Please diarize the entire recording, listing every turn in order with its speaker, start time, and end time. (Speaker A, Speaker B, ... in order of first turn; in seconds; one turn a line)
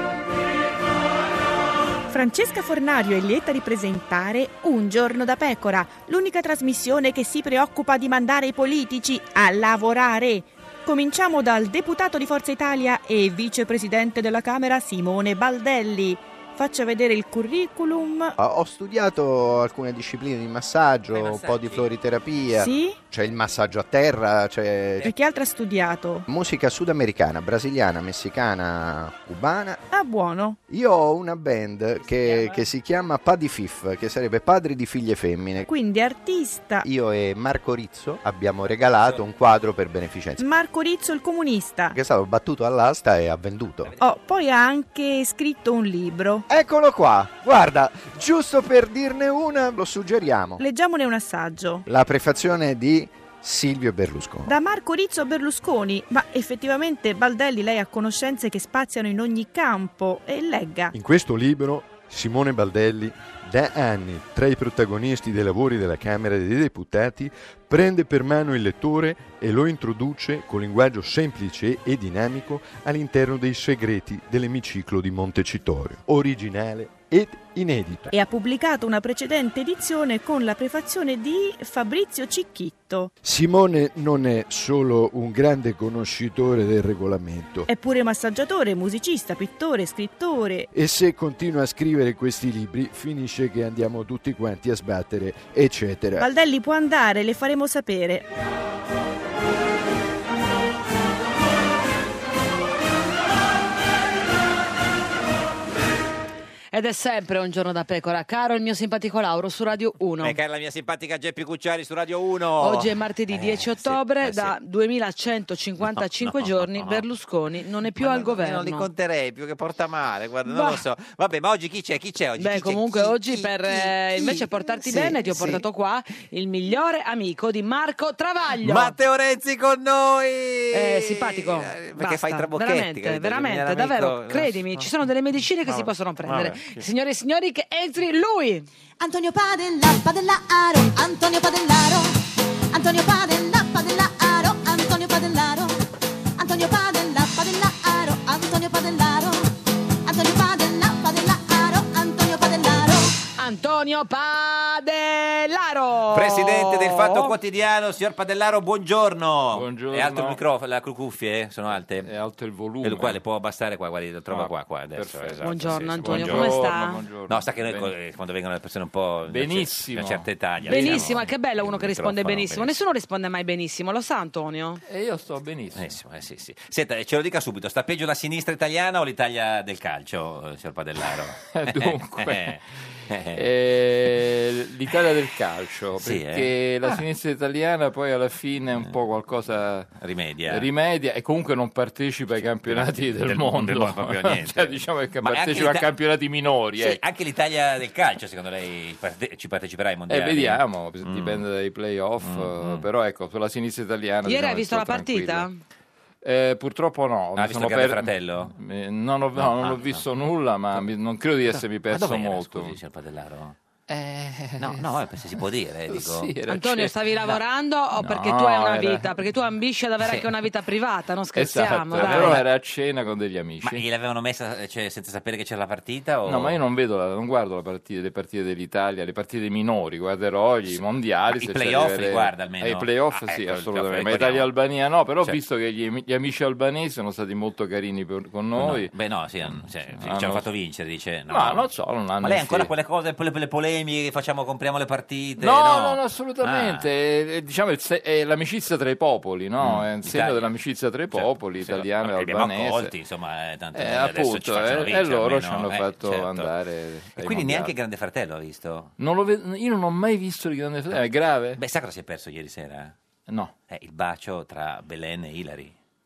Speaker A: 2.1-18.3
Speaker B: 18.4-25.1
Speaker C: 21.1-21.9
Speaker A: 22.5-23.0
Speaker A: 25.0-26.2
Speaker B: 26.3-29.8
Speaker A: 29.9-30.6
Speaker B: 30.7-35.7
Speaker C: 32.0-32.6
Speaker A: 35.6-36.9
Speaker B: 36.8-40.4
Speaker C: 39.0-39.3
Speaker A: 40.4-42.0
Speaker B: 41.9-43.9
Speaker C: 43.8-44.1
Speaker A: 44.0-46.5
Speaker B: 46.5-50.6
Speaker A: 50.6-51.8
Speaker B: 51.9-54.5
Speaker A: 54.5-60.9
Speaker D: 60.9-78.1
Speaker A: 78.1-83.1
Speaker D: 83.2-87.7
Speaker A: 87.7-90.7
Speaker D: 90.7-96.3
Speaker A: 96.2-98.2
Speaker E: 106.7-110.4
Speaker C: 110.2-114.5
Speaker E: 112.6-118.9
Speaker C: 115.8-117.0
Speaker C: 118.0-125.6
Speaker E: 120.5-120.8
Speaker E: 122.4-128.9
Speaker C: 128.6-134.9
Speaker E: 130.7-138.7
Speaker C: 135.7-136.8
Speaker F: 139.0-142.2
Speaker F: 142.7-145.8
Speaker F: 146.4-149.5
Speaker F: 150.0-153.1
Speaker E: 153.4-157.3
Speaker C: 156.1-162.1
Speaker G: 159.5-160.4
Speaker G: 162.0-163.2
Speaker C: 162.8-166.6
Speaker G: 164.3-167.9
Speaker E: 165.4-167.0
Speaker C: 167.3-172.7
Speaker G: 169.3-171.2
Speaker E: 170.7-174.8
Speaker G: 174.8-175.9
Speaker C: 175.7-182.6
Speaker G: 181.4-182.6
Speaker C: 183.1-183.4
Speaker G: 183.3-189.9
Speaker C: 186.0-187.0
Speaker C: 190.0-190.7
Speaker G: 190.5-197.0
Speaker C: 192.4-195.9
Speaker C: 196.8-201.4
Speaker G: 200.1-205.5
Speaker C: 202.2-202.9
Speaker E: 204.2-205.6
Speaker G: 206.2-212.7
Speaker C: 207.4-208.5
Speaker C: 209.3-210.0
Speaker C: 211.5-213.6
Speaker G: 213.9-214.9
Speaker C: 214.6-216.3
Speaker G: 215.9-216.9
Speaker E: 216.5-222.4
Speaker G: 218.0-219.2
Speaker G: 221.3-223.8
Speaker C: 221.9-222.4
Speaker C: 223.6-226.6
Speaker G: 226.2-238.9
Speaker C: 230.7-234.5
Speaker C: 238.6-241.7
Speaker G: 239.5-240.5
Speaker G: 241.3-242.7
Speaker C: 242.2-246.8
Speaker G: 245.4-252.9
Speaker C: 249.6-250.5
Speaker C: 251.1-256.5
Speaker G: 253.7-257.7
Speaker C: 257.2-258.9
Speaker G: 259.0-261.6
Speaker C: 261.6-262.9
Speaker G: 263.3-263.5
Speaker C: 263.7-265.7